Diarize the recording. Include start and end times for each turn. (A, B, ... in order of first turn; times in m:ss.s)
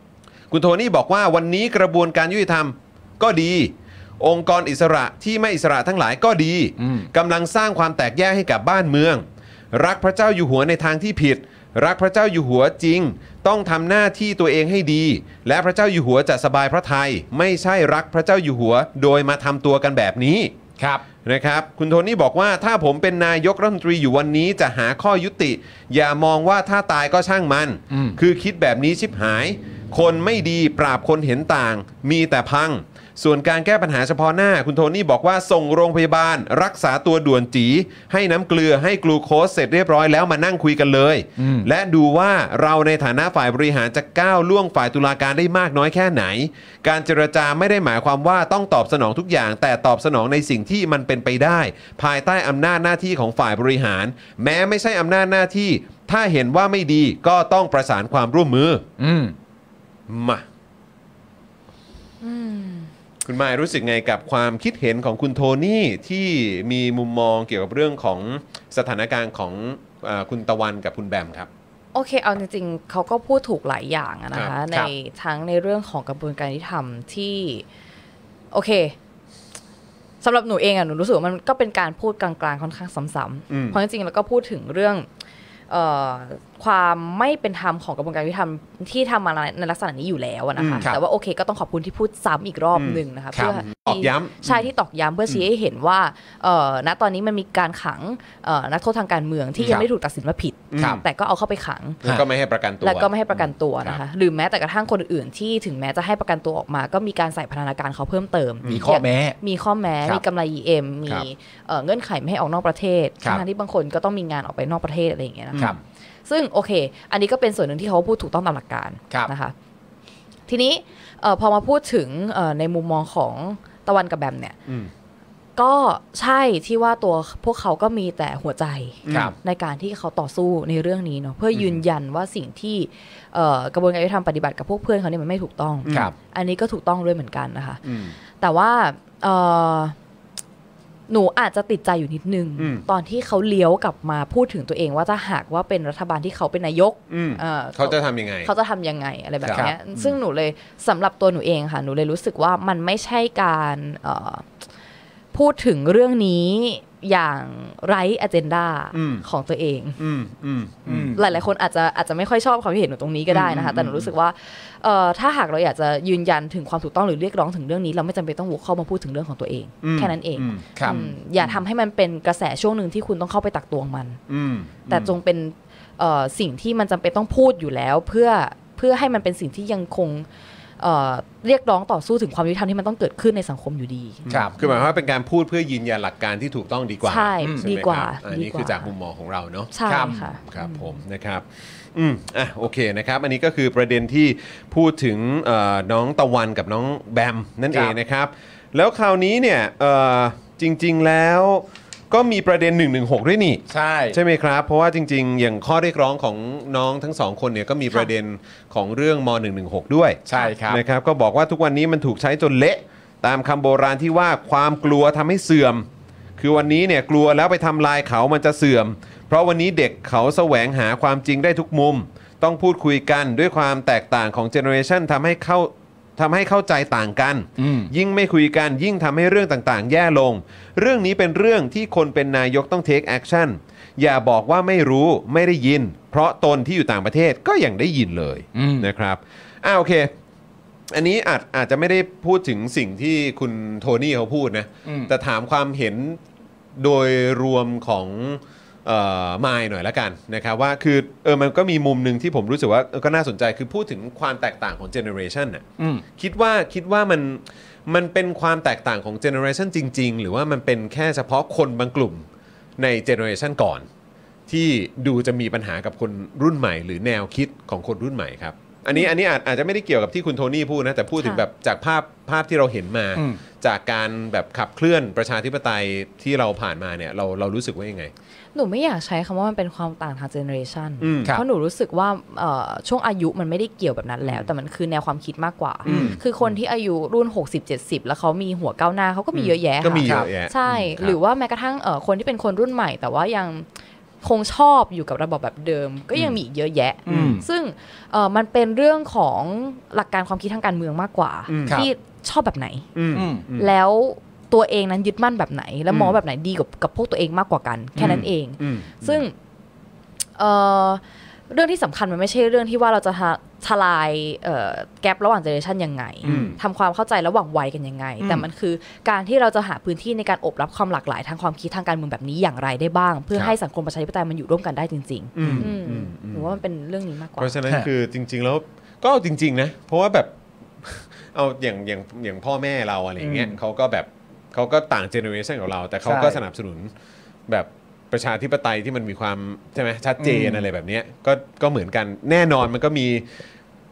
0:00.5-0:20.5 A
0:06.8-0:07.1 B
0:20.8-0:21.0 B
0:21.2-0:58.8 A
0:27.9-0:28.2 B
0:41.4-0:41.7 B
0:59.0-0:59.4 B
1:00.1-1:00.4 A
1:02.2-1:02.9 C
1:03.2-1:11.5 A
1:11.9-1:17.6 C
1:18.5-1:18.9 C
1:20.2-1:25.0 C
1:23.5-1:23.8 A
1:25.7-1:42.0 C
1:30.6-1:30.8 A
1:32.7-1:34.7 A
1:40.7-1:41.0 A
1:42.0-1:44.0 A
1:42.8-1:55.7 C
1:48.7-1:49.4 B
1:56.3-1:59.5 C
2:00.5-2:04.6 C
2:05.6-2:19.9 C
2:09.0-2:09.3 A
2:09.1-2:09.4 B
2:15.8-2:16.1 A
2:15.9-2:16.1 B
2:17.8-2:18.2 A
2:21.1-2:34.5 C
2:22.6-2:22.8 A
2:27.1-2:28.5 A
2:29.4-2:30.2 A
2:35.3-2:40.0 C
2:38.9-2:39.2 A
2:40.0-2:41.2 A
2:40.8-2:41.2 B
2:41.1-2:54.2 C
2:43.3-2:44.1 A
2:49.8-2:51.5 A
2:50.8-2:51.1 B
2:54.3-2:55.1 A
2:54.9-3:00.2 C
3:00.8-3:04.8 C
3:04.3-3:35.9 A
3:04.3-3:04.5 B
3:07.0-3:08.9 C
3:09.7-3:10.8 C
3:09.8-3:10.2 B
3:23.7-3:24.2 B
3:30.3-3:30.8 B
3:36.4-4:00.1 A
3:47.6-3:47.9 B
3:58.5-3:58.9 B
4:00.9-4:06.2 A
4:04.8-4:05.1 B
4:06.8-4:15.6 A
4:15.8-4:16.0 B
4:16.2-4:22.3 A
4:22.8-4:23.9 A
4:24.5-4:38.1 A
4:33.2-4:33.4 B
4:38.5-4:53.7 C
4:41.0-4:41.3 A
4:44.2-4:44.5 A
4:45.8-4:46.5 A
4:45.9-4:46.2 B
4:49.3-4:51.2 A
4:50.0-4:50.3 B
4:54.2-5:02.9 C
4:57.1-4:57.4 B
4:57.1-4:57.4 A
5:01.5-5:01.8 A
5:02.9-5:03.7 A
5:03.1-5:03.4 B
5:03.6-5:09.3 C
5:05.9-5:06.1 A
5:08.0-5:09.2 A
5:10.4-5:27.5 C
5:16.2-5:16.6 A
5:16.2-5:16.6 B
5:18.2-5:18.5 B
5:25.3-5:26.6 A
5:25.4-5:25.7 B
5:27.4-5:36.9 A
5:33.2-5:33.6 B
5:36.0-5:36.4 B
5:37.5-5:43.3 A
5:40.2-5:40.6 B